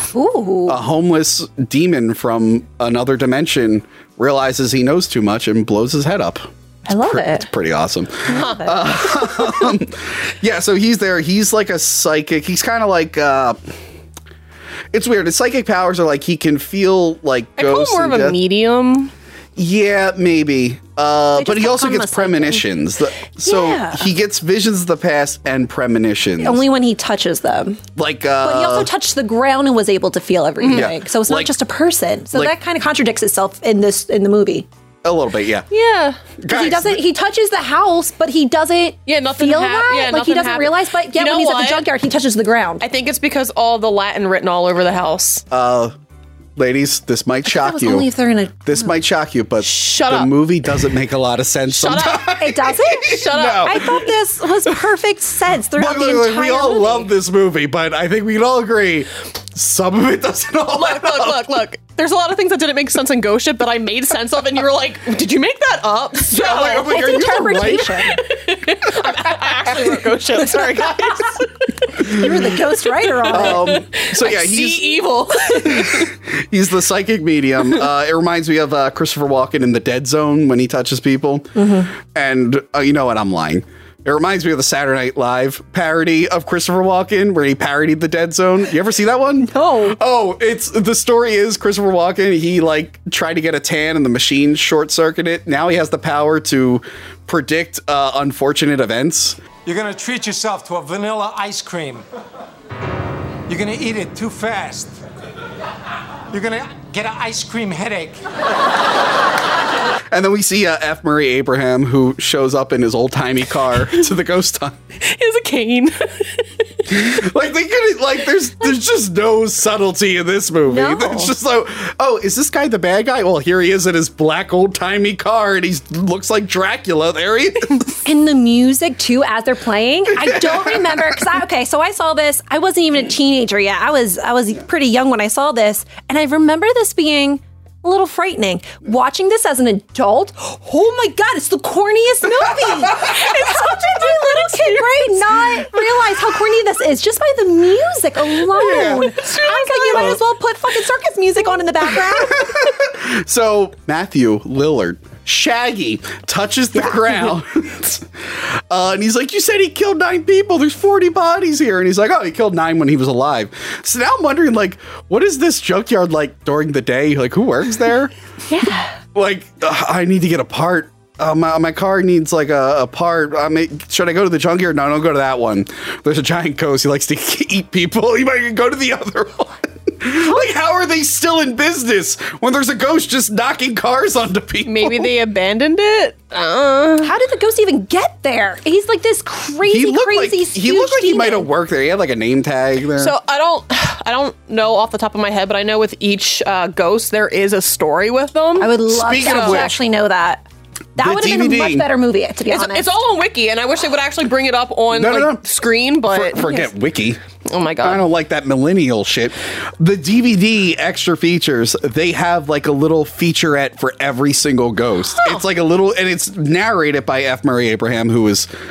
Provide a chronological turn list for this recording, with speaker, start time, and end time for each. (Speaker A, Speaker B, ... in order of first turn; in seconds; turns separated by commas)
Speaker A: 0.1-0.8, Speaker B: 0.7-13.6, Speaker A: 6.9-7.5, Speaker C: 8.3-8.6, Speaker B: 14.9-18.4, Speaker C: 17.6-19.1, Speaker B: 19.6-26.6, Speaker A: 21.4-22.6, Speaker A: 23.5-24.1, Speaker A: 26.4-27.8, Speaker B: 28.0-28.9, Speaker A: 28.4-34.7, Speaker C: 30.6-30.9, Speaker B: 30.7-31.5, Speaker B: 35.0-35.7, Speaker C: 35.7-36.2, Speaker B: 36.4-37.0, Speaker A: 36.5-42.8, Speaker C: 39.1-41.9, Speaker C: 42.8-45.4, Speaker B: 45.5-45.9, Speaker B: 46.6-48.1, Speaker A: 47.5-48.9, Speaker B: 48.6-54.1, Speaker C: 49.6-50.4, Speaker C: 51.7-52.4, Speaker A: 52.4-57.1, Speaker C: 53.1-53.9, Speaker B: 55.8-61.6, Speaker C: 60.7-72.3, Speaker B: 66.3-68.1, Speaker A: 66.4-68.2, Speaker A: 72.0-73.7, Speaker C: 73.3-76.1, Speaker B: 73.3-99.4, Speaker A: 81.5-81.9, Speaker A: 89.5-90.0, Speaker D: 99.6-102.0, Speaker D: 103.5-105.0, Speaker D: 106.3-108.2, Speaker B: 110.1-114.8, Speaker C: 115.0-117.0, Speaker B: 116.9-128.0, Speaker A: 120.7-121.3, Speaker A: 128.1-152.6, Speaker B: 130.1-131.2, Speaker C: 143.0-145.2, Speaker B: 148.6-149.2, Speaker C: 148.7-150.2, Speaker B: 149.9-150.2, Speaker B: 152.4-168.1, Speaker A: 156.8-157.2, Speaker A: 168.5-168.9, Speaker B: 169.2-185.1, Speaker C: 184.7-187.1, Speaker A: 187.0-191.5, Speaker B: 189.6-193.2, Speaker C: 193.0-199.8, Speaker A: 198.6-200.4, Speaker B: 198.9-199.8, Speaker B: 201.0-201.9, Speaker A: 201.0-202.9, Speaker C: 202.5-206.4, Speaker B: 204.9-205.4, Speaker B: 206.1-207.2, Speaker A: 206.4-206.7, Speaker C: 207.5-208.0, Speaker B: 207.8-218.5